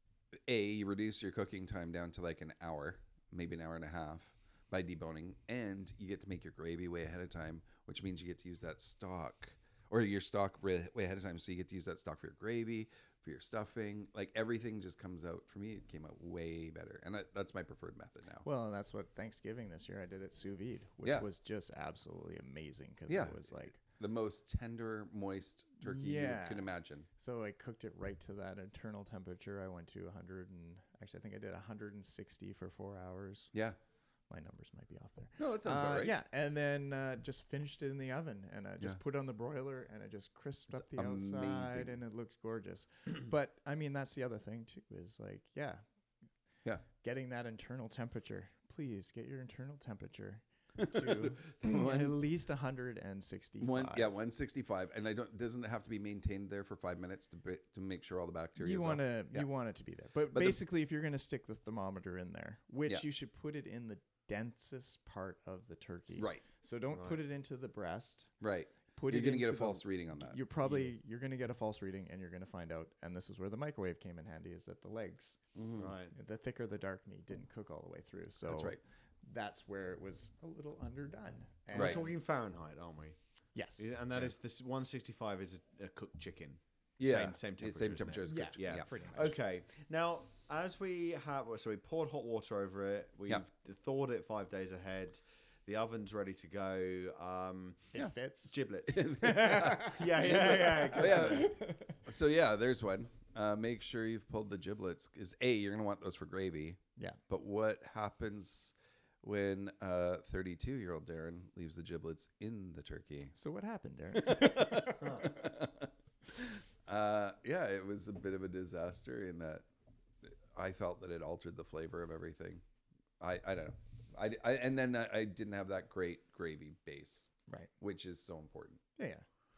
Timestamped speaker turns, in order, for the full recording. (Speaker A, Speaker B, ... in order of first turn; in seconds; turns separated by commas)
Speaker A: 0.5-18.4, Speaker B: 18.4-23.8, Speaker A: 23.1-27.1, Speaker B: 25.8-33.5, Speaker B: 34.3-45.8, Speaker A: 35.4-36.1, Speaker A: 40.7-42.0, Speaker B: 47.0-54.1, Speaker A: 50.8-52.2, Speaker A: 53.6-59.5, Speaker B: 58.6-68.3, Speaker A: 60.3-60.6, Speaker A: 66.2-66.4, Speaker C: 66.9-67.2, Speaker A: 68.4-70.4, Speaker B: 68.9-75.4, Speaker A: 75.5-75.9, Speaker C: 75.8-76.1, Speaker B: 76.1-82.1, Speaker A: 78.4-78.8, Speaker C: 81.7-83.2, Speaker A: 81.7-82.0, Speaker B: 83.5-83.9, Speaker C: 83.8-98.0, Speaker A: 87.0-89.3, Speaker B: 88.2-89.3, Speaker B: 97.9-98.5, Speaker C: 98.5-101.5, Speaker A: 98.9-113.3, Speaker B: 99.2-102.0, Speaker B: 113.3-115.2, Speaker A: 114.2-119.7, Speaker A: 120.2-122.6, Speaker A: 123.2-128.8, Speaker B: 129.0-129.2